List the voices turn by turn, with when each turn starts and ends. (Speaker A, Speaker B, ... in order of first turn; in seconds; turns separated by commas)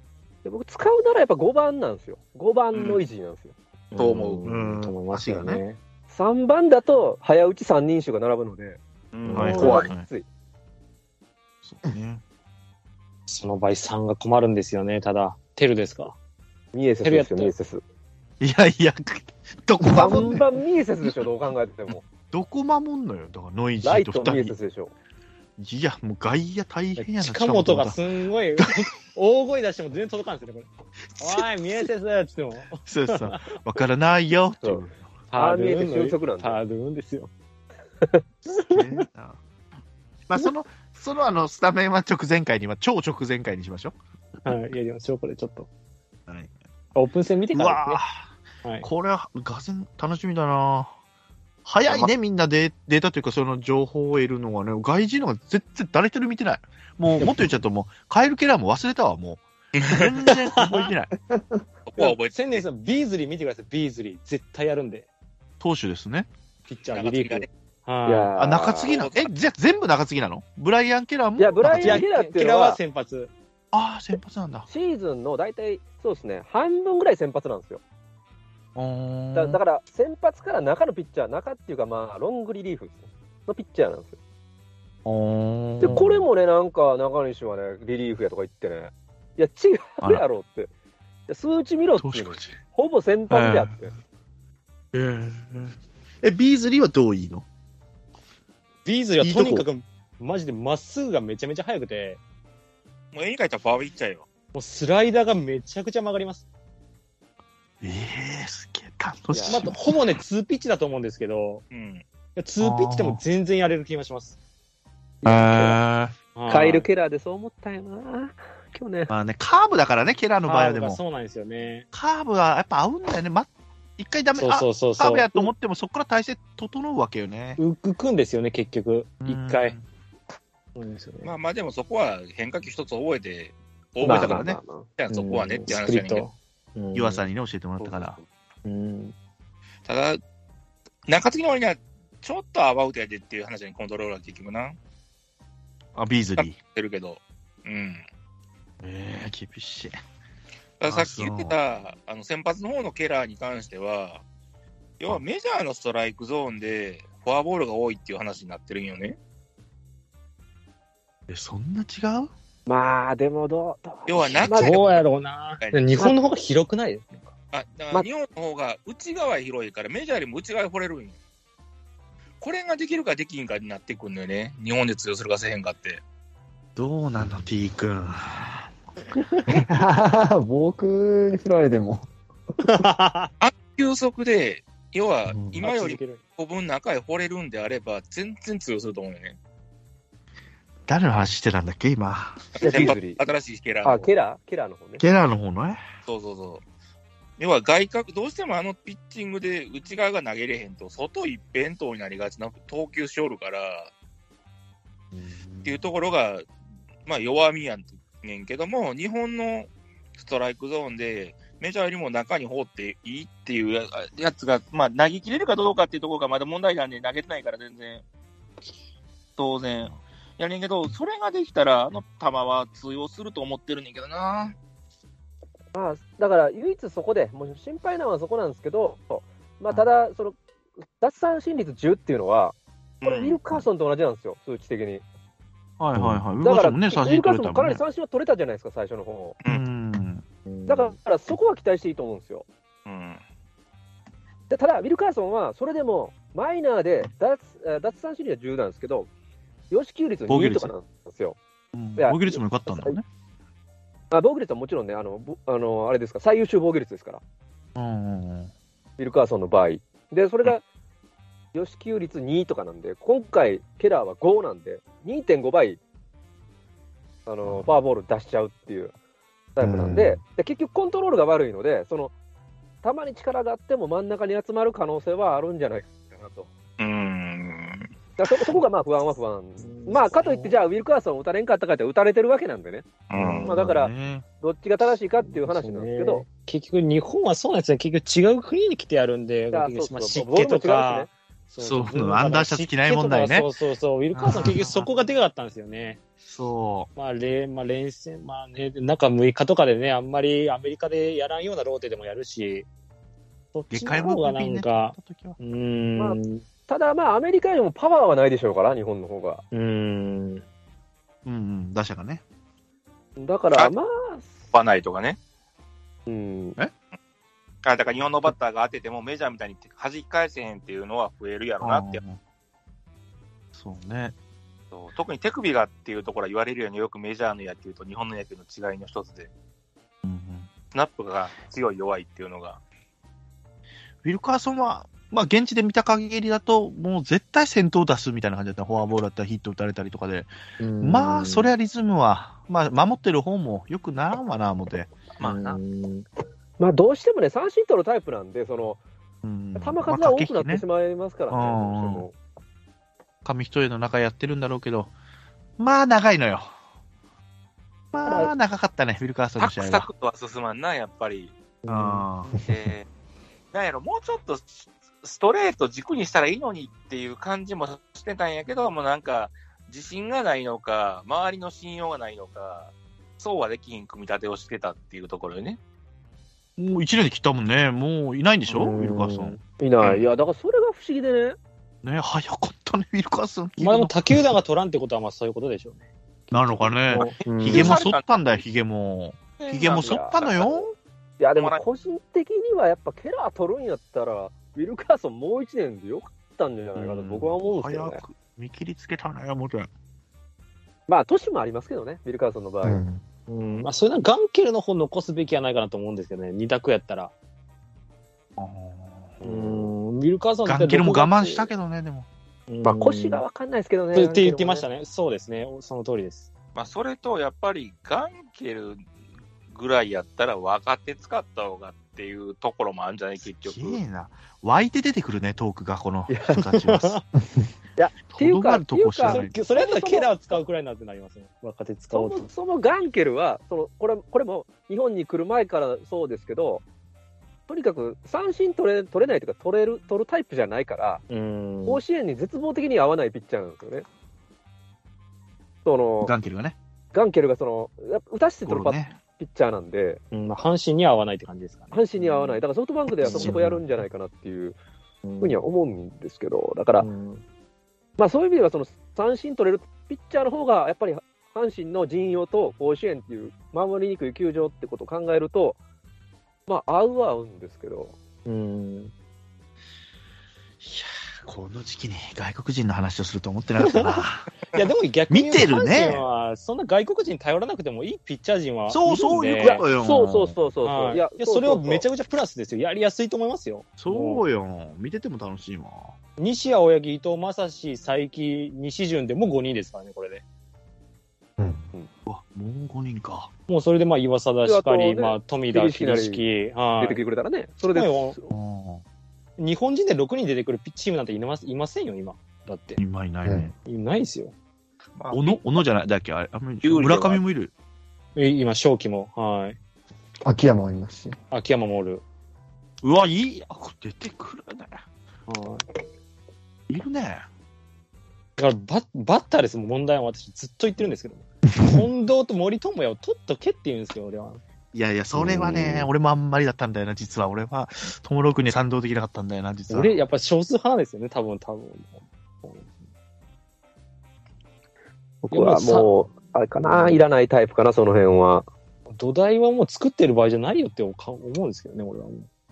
Speaker A: 0.4-3.5, Speaker B: 2.7-3.0, Speaker C: 3.9-5.8, Speaker B: 3.9-4.4, Speaker D: 4.4-5.6, Speaker A: 6.1-8.8, Speaker B: 9.1-9.9, Speaker C: 9.2-9.9, Speaker D: 9.3-10.1, Speaker A: 9.4-10.2, Speaker D: 11.6-12.2, Speaker C: 13.3-16.1, Speaker A: 16.7-17.8, Speaker C: 17.0-17.5, Speaker D: 18.4-20.5, Speaker A: 19.9-22.1, Speaker D: 22.3-24.5, Speaker A: 23.8-24.9, Speaker D: 25.6-28.0, Speaker C: 27.0-33.6, Speaker D: 28.6-28.8, Speaker D: 32.9-35.1, Speaker C: 35.3-37.3, Speaker A: 35.3-36.6, Speaker C: 38.5-39.0, Speaker D: 38.7-39.4, Speaker D: 40.3-43.9, Speaker C: 44.4-45.7, Speaker D: 46.3-46.5, Speaker C: 46.9-48.0, Speaker D: 47.5-48.1, Speaker D: 48.8-50.9, Speaker D: 51.6-61.1, Speaker C: 57.2-57.5, Speaker B: 59.7-60.3, Speaker C: 60.5-60.9, Speaker E: 61.2-61.6, Speaker B: 61.8-62.6, Speaker C: 62.0-65.1, Speaker D: 65.6-66.3, Speaker C: 66.7-68.3, Speaker B: 66.9-67.5, Speaker A: 68.0-68.9, Speaker D: 68.3-72.0, Speaker B: 68.8-69.3, Speaker A: 71.4-72.8, Speaker C: 71.6-73.3, Speaker D: 73.7-74.7, Speaker A: 74.7-77.8, Speaker D: 78.7-79.6, Speaker A: 79.3-84.2, Speaker D: 85.0-86.3, Speaker A: 85.8-90.7, Speaker A: 91.3-93.9, Speaker D: 92.0-92.6, Speaker D: 93.3-93.8, Speaker D: 94.9-97.4, Speaker C: 98.8-102.2, Speaker D: 99.2-99.7, Speaker B: 103.1-104.2, Speaker C: 104.5-106.4, Speaker D: 107.8-110.0, Speaker A: 109.3-109.7, Speaker C: 109.5-111.6, Speaker B: 111.7-112.0, Speaker C: 112.3-114.4, Speaker D: 112.6-113.2, Speaker A: 115.2-115.8, Speaker D: 115.2-116.1, Speaker C: 116.3-116.9, Speaker A: 116.5-119.1, Speaker D: 119.1-121.0, Speaker C: 120.4-121.9, Speaker D: 121.9-127.6, Speaker C: 124.3-125.5, Speaker C: 127.6-129.8, Speaker D: 129.2-129.8, Speaker C: 130.7-131.3, Speaker B: 131.2-134.4, Speaker D: 134.0-134.6, Speaker A: 134.0-134.8, Speaker B: 135.0-136.3, Speaker C: 135.1-137.2, Speaker D: 136.9-138.2, Speaker B: 137.8-138.2, Speaker C: 138.6-139.1, Speaker B: 139.8-140.2, Speaker B: 141.1-144.8, Speaker D: 145.9-146.6, Speaker B: 146.4-148.0, Speaker D: 148.8-150.0, Speaker B: 150.8-154.2, Speaker D: 150.8-151.5, Speaker B: 155.0-159.2, Speaker D: 161.3-162.3, Speaker A: 162.7-164.8, Speaker B: 164.1-165.0, Speaker C: 164.5-167.3, Speaker B: 165.6-166.1, Speaker B: 167.5-171.2, Speaker B: 172.4-176.0, Speaker D: 176.8-178.7, Speaker E: 179.5-182.1, Speaker C: 182.6-183.3, Speaker B: 183.4-189.4, Speaker C: 185.6-186.2, Speaker D: 190.9-192.9, Speaker A: 192.6-193.2, Speaker B: 192.6-194.1, Speaker A: 193.8-195.0, Speaker D: 195.0-195.8, Speaker B: 196.1-196.6, Speaker B: 197.4-203.9, Speaker D: 205.1-205.9, Speaker B: 205.6-206.4, Speaker B: 207.1-218.0, Speaker B: 219.4-224.6, Speaker A: 225.7-230.4, Speaker A: 231.0-235.0, Speaker B: 233.0-233.4, Speaker D: 235.8-237.8, Speaker A: 236.4-239.4, Speaker D: 239.4-240.2, Speaker C: 240.5-240.9, Speaker A: 240.7-242.4, Speaker B: 242.8-243.2, Speaker A: 244.5-249.1, Speaker A: 249.7-251.4, Speaker D: 250.3-250.7, Speaker D: 251.7-253.0, Speaker A: 252.0-253.0, Speaker A: 254.1-257.2, Speaker D: 257.8-258.5, Speaker A: 259.0-260.6, Speaker A: 261.5-265.8, Speaker A: 267.2-268.9, Speaker A: 269.6-272.1, Speaker E: 269.6-270.2, Speaker A: 272.8-276.5, Speaker B: 276.8-277.9, Speaker A: 278.2-282.9, Speaker C: 279.6-280.6, Speaker B: 283.1-283.5, Speaker C: 283.1-283.8, Speaker A: 283.4-286.2, Speaker D: 283.5-284.3, Speaker C: 285.2-296.0, Speaker A: 289.5-291.1, Speaker D: 291.6-293.5, Speaker D: 294.1-294.9, Speaker D: 296.2-296.9, Speaker C: 296.9-302.7, Speaker C: 303.5-306.4, Speaker D: 303.7-305.4, Speaker A: 306.0-309.4, Speaker C: 309.5-310.4, Speaker D: 311.2-312.2, Speaker A: 313.2-314.3, Speaker B: 314.5-315.2, Speaker A: 316.1-316.6, Speaker B: 317.6-322.0, Speaker D: 321.6-322.2, Speaker D: 323.5-324.1, Speaker B: 324.7-329.3, Speaker D: 330.0-330.5, Speaker B: 330.7-332.6, Speaker D: 334.0-340.3, Speaker C: 340.6-341.5, Speaker D: 340.8-344.9, Speaker B: 345.2-345.6, Speaker C: 345.2-346.1, Speaker A: 346.6-348.8, Speaker D: 349.2-350.6, Speaker A: 349.6-352.1, Speaker D: 351.3-352.1, Speaker D: 353.2-354.9, Speaker D: 355.6-356.5, Speaker D: 357.9-359.9, Speaker A: 358.0-358.3, Speaker B: 359.4-361.3, Speaker C: 361.6-362.1, Speaker D: 361.7-362.4, Speaker B: 362.4-362.9, Speaker B: 363.5-375.6, Speaker D: 376.6-379.4, Speaker C: 378.4-379.4, Speaker A: 379.6-381.4, Speaker D: 381.8-384.0, Speaker C: 383.6-387.8, Speaker D: 386.3-390.8, Speaker B: 387.0-388.4, Speaker B: 389.4-390.4, Speaker A: 389.7-390.6, Speaker A: 391.2-398.0, Speaker B: 391.3-391.6, Speaker D: 396.8-399.7, Speaker A: 400.9-402.8, Speaker E: 402.6-403.0, Speaker C: 403.3-407.1, Speaker D: 408.4-409.2, Speaker C: 409.2-411.5, Speaker D: 410.4-412.1, Speaker C: 412.5-413.2, Speaker A: 412.6-414.6, Speaker C: 413.9-416.3, Speaker B: 416.6-418.8, Speaker B: 419.5-423.8, Speaker D: 423.4-426.9, Speaker A: 426.1-426.4, Speaker C: 426.5-427.0, Speaker A: 427.8-430.4, Speaker D: 428.0-429.4, Speaker C: 429.0-432.3, Speaker A: 431.9-436.6, Speaker A: 437.5-441.0, Speaker C: 441.1-441.8, Speaker A: 441.7-443.9, Speaker A: 445.6-446.1, Speaker D: 446.0-446.6, Speaker A: 446.9-450.0, Speaker D: 448.4-449.0, Speaker C: 450.1-452.4, Speaker A: 451.7-454.6, Speaker D: 453.0-453.6, Speaker C: 453.0-453.6, Speaker C: 455.0-455.4, Speaker A: 455.2-456.9, Speaker C: 456.8-457.2, Speaker A: 458.0-465.6, Speaker A: 466.5-467.9, Speaker C: 468.2-468.9, Speaker D: 470.6-474.3, Speaker C: 473.6-479.6, Speaker D: 475.1-476.0, Speaker D: 478.7-480.3, Speaker A: 479.4-481.8, Speaker C: 480.6-484.2, Speaker D: 483.8-485.9, Speaker C: 486.2-490.2, Speaker D: 492.1-493.3, Speaker C: 493.5-497.0, Speaker A: 494.4-496.3, Speaker A: 496.8-498.3, Speaker C: 497.7-498.2, Speaker D: 498.3-498.8, Speaker C: 499.4-502.8, Speaker D: 502.8-503.5, Speaker E: 503.2-503.5, Speaker C: 503.6-504.3, Speaker B: 505.0-505.4, Speaker D: 505.1-507.5, Speaker B: 506.6-507.2, Speaker C: 508.1-509.6, Speaker E: 510.2-511.1, Speaker C: 511.3-512.0, Speaker D: 512.8-514.8, Speaker C: 515.3-515.6, Speaker D: 516.7-517.2, Speaker C: 518.4-524.4, Speaker D: 524.7-530.0, Speaker E: 525.1-525.9, Speaker C: 529.7-532.7, Speaker A: 535.2-538.5, Speaker C: 535.3-535.9, Speaker C: 538.9-542.3